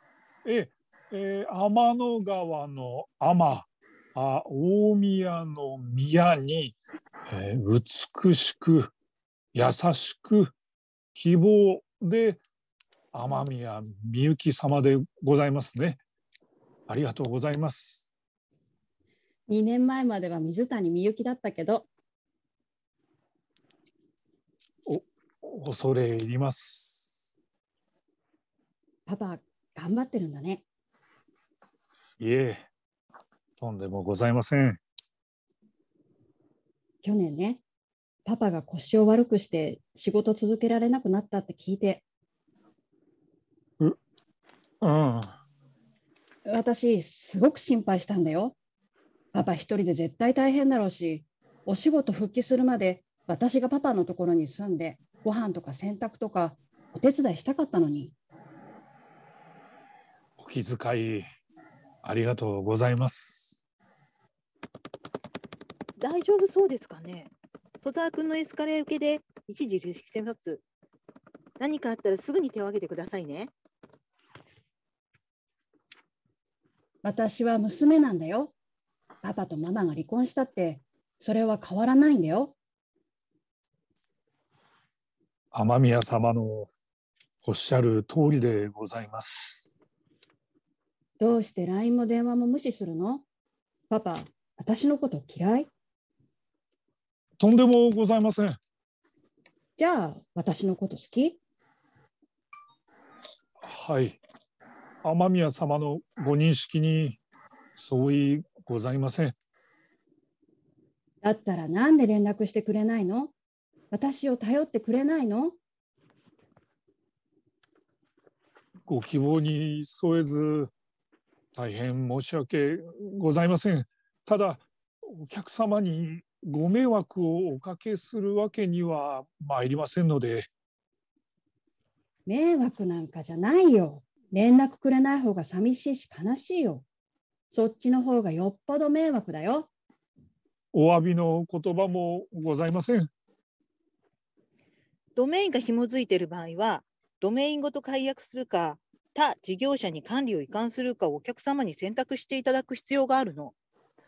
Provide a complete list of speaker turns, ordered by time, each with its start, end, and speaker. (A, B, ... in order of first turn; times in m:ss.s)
0:00.4-0:06.8 A
0:07.3-0:08.9 A
0:09.5-0:10.5 A
0:11.1-0:12.4 A
0:13.1-0:16.0 A
0:16.9-0:18.1 A
0:19.5-0:21.9 B
0:24.8-0:27.3 A
0:29.1-0:30.6 B
0:32.2-0:32.6 A
0:33.6-0:34.8 A
0:37.0-0:37.6 B
0:38.2-0:42.0 B
0:44.8-0:45.3 A
0:46.4-0:48.6 B
0:49.3-0:58.1 B
1:00.4-1:01.2 A
1:02.0-1:03.6 A
1:06.0-1:07.3 C
1:07.8-1:10.6 C
1:11.6-1:13.5 C
1:17.0-1:18.5 B
1:19.2-1:22.5 B
1:25.5-1:26.7 A
1:27.4-1:29.7 A
1:31.2-1:33.2 B
1:33.9-1:35.7 B
1:37.4-1:38.6 A
1:39.8-1:41.4 B
1:43.6-1:44.2 A
1:45.0-1:47.2 A
1:47.8-1:49.4 A
1:51.2-1:53.3 B
1:53.9-1:55.6 B
1:58.9-2:00.7 A
2:01.5-2:10.5 A
2:12.3-2:16.8 B
2:17.5-2:19.7 B
2:20.7-2:23.1 A
2:25.2-2:33.5 C